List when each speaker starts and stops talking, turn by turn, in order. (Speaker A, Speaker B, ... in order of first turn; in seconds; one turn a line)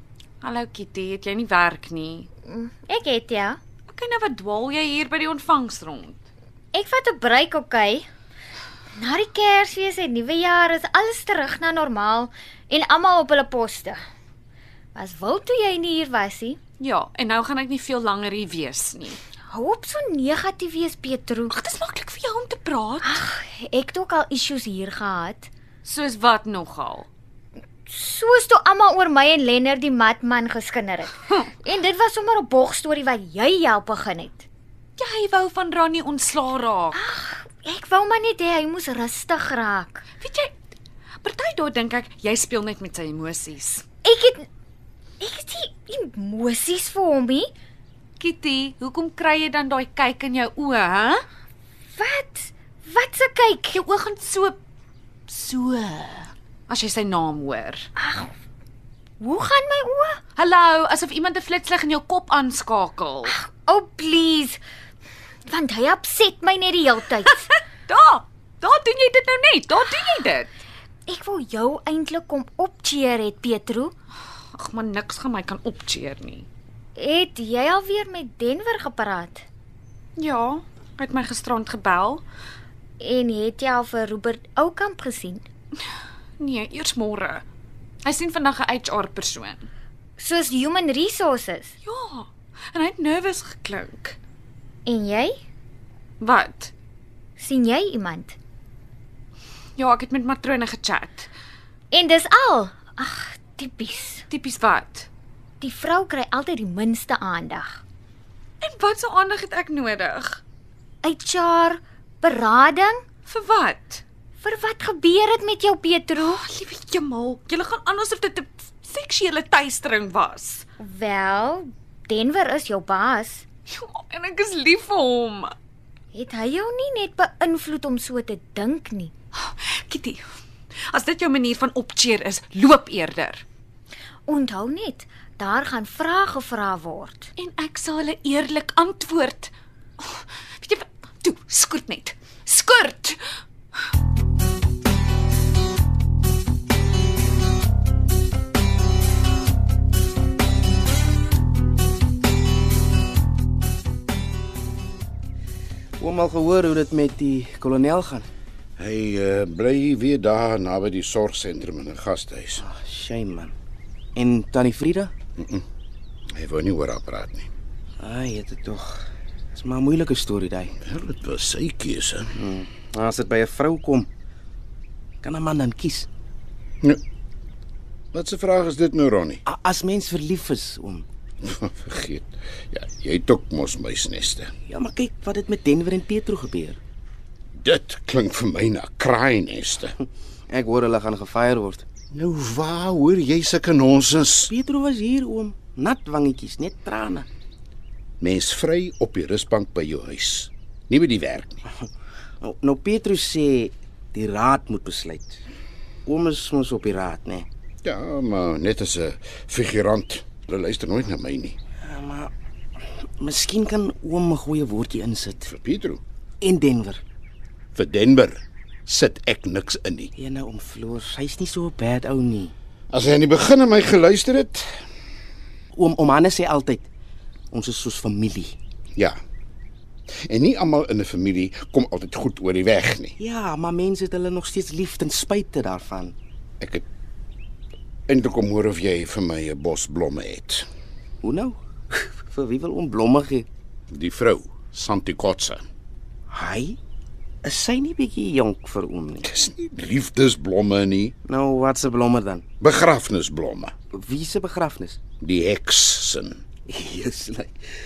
Speaker A: 0.4-2.3
Speaker B: 2.5-3.6
Speaker A: 3.9-6.2
Speaker B: 6.7-8.1
Speaker B: 8.9-14.0
Speaker B: 14.9-16.6
Speaker A: 16.8-19.2
Speaker B: 19.5-21.5
Speaker A: 21.5-23.2
Speaker B: 23.0-25.5
Speaker A: 25.9-27.1
Speaker B: 27.9-34.5
Speaker A: 35.0-37.0
Speaker B: 36.9-40.0
Speaker A: 40.2-40.6
Speaker A: 41.2-43.8
Speaker B: 44.0-44.5
Speaker B: 45.2-47.5
Speaker A: 48.2-51.2
Speaker B: 51.9-53.8
Speaker A: 53.7-54.6
Speaker A: 55.3-57.9
Speaker B: 58.0-58.3
Speaker B: 59.2-60.2
Speaker A: 60.4-63.3
Speaker B: 63.2-64.6
Speaker B: 65.5-67.5
Speaker A: 67.9-70.6
Speaker B: 71.1-73.9
Speaker A: 74.5-76.5
Speaker B: 77.0-79.5
Speaker A: 80.2-82.2
Speaker B: 83.0-85.5
Speaker A: 86.4-87.4
Speaker A: 88.0-89.7
Speaker B: 90.2-91.7
Speaker A: 91.8-94.2
Speaker B: 94.9-95.4
Speaker A: 96.2-96.7
Speaker B: 97.4-98.4
Speaker A: 99.8-101.3
Speaker B: 101.9-104.3
Speaker A: 104.3-105.1
Speaker B: 105.6-107.8
Speaker A: 108.6-110.4
Speaker B: 111.0-113.0
Speaker A: 113.3-114.0
Speaker B: 114.4-116.4
Speaker A: 116.2-120.7
Speaker B: 120.8-123.5
Speaker A: 123.7-125.5
Speaker B: 126.1-129.1
Speaker A: 129.4-130.2
Speaker A: 130.9-133.4
Speaker B: 134.3-137.3
Speaker A: 137.4-143.2
Speaker C: 156.0-158.3
Speaker D: 158.8-162.6
Speaker C: 162.6-163.5
Speaker C: 164.2-165.1
Speaker D: 165.4-165.7
Speaker D: 166.3-167.5
Speaker C: 168.0-170.7
Speaker D: 170.8-172.3
Speaker C: 172.4-174.1
Speaker C: 175.2-176.1
Speaker D: 178.1-179.4
Speaker C: 179.5-181.1
Speaker D: 181.4-184.5
Speaker C: 184.7-186.8
Speaker D: 187.6-189.9
Speaker C: 190.5-191.8
Speaker D: 192.1-194.5
Speaker C: 194.5-197.3
Speaker D: 198.2-201.7
Speaker C: 202.4-205.4
Speaker C: 206.1-207.5
Speaker D: 207.8-211.6
Speaker C: 211.8-212.3
Speaker C: 213.2-215.5
Speaker D: 215.5-216.0
Speaker C: 216.4-217.0
Speaker D: 217.8-220.1
Speaker C: 220.2-222.5
Speaker D: 222.9-224.7
Speaker C: 225.7-226.9
Speaker C: 227.5-228.6
Speaker D: 230.2-233.2
Speaker C: 233.2-236.2
Speaker D: 238.1-240.7
Speaker C: 241.2-243.5
Speaker D: 243.9-245.6
Speaker C: 246.3-246.8
Speaker C: 247.4-249.3
Speaker D: 249.3-251.2
Speaker C: 251.2-252.4
Speaker D: 252.6-253.7
Speaker C: 253.9-255.0
Speaker D: 255.2-256.4
Speaker C: 256.7-257.5